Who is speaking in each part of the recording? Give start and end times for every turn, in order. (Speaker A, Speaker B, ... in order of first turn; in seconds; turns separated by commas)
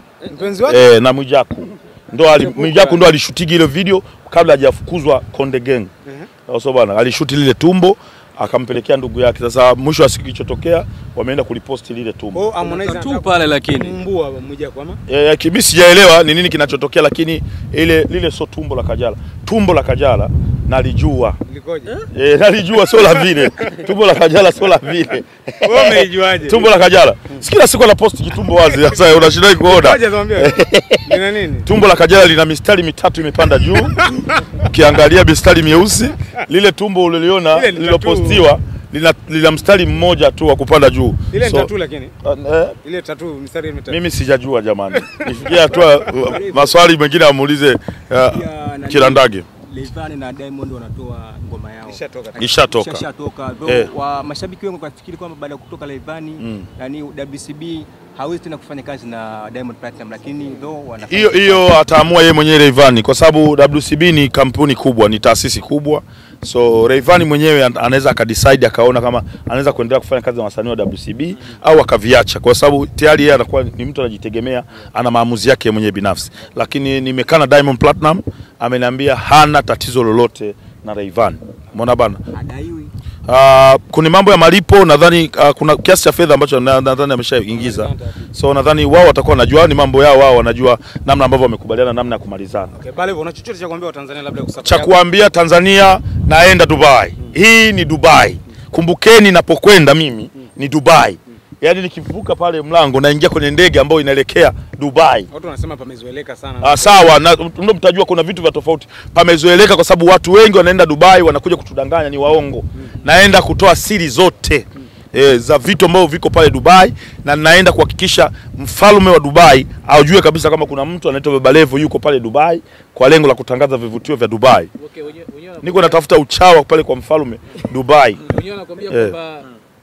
Speaker A: 0.2-0.9, Speaker B: 0.7-5.9, Speaker A: 2.2-3.0, Speaker B: 6.5-12.5, Speaker A: 12.3-15.0, Speaker C: 12.6-14.0, Speaker B: 15.1-21.4, Speaker A: 21.4-22.0, Speaker B: 22.1-34.0, Speaker A: 25.6-26.7, Speaker A: 29.6-31.7, Speaker A: 34.0-34.4, Speaker B: 34.6-41.7, Speaker A: 37.5-38.5, Speaker A: 41.3-42.1, Speaker B: 42.2-42.8, Speaker A: 42.8-44.0, Speaker B: 43.9-49.5, Speaker A: 45.5-45.9, Speaker D: 46.4-46.7, Speaker D: 48.3-61.7, Speaker A: 51.8-52.5, Speaker B: 52.4-53.1, Speaker B: 53.6-53.9, Speaker B: 56.4-56.7, Speaker B: 61.0-82.2, Speaker D: 82.3-82.9, Speaker B: 83.2-92.7, Speaker A: 87.5-88.2, Speaker A: 92.7-95.0, Speaker B: 94.6-105.3, Speaker A: 105.3-107.1, Speaker B: 106.6-124.7, Speaker C: 125.0-126.0, Speaker B: 125.6-128.2, Speaker C: 128.2-129.4, Speaker B: 128.8-129.2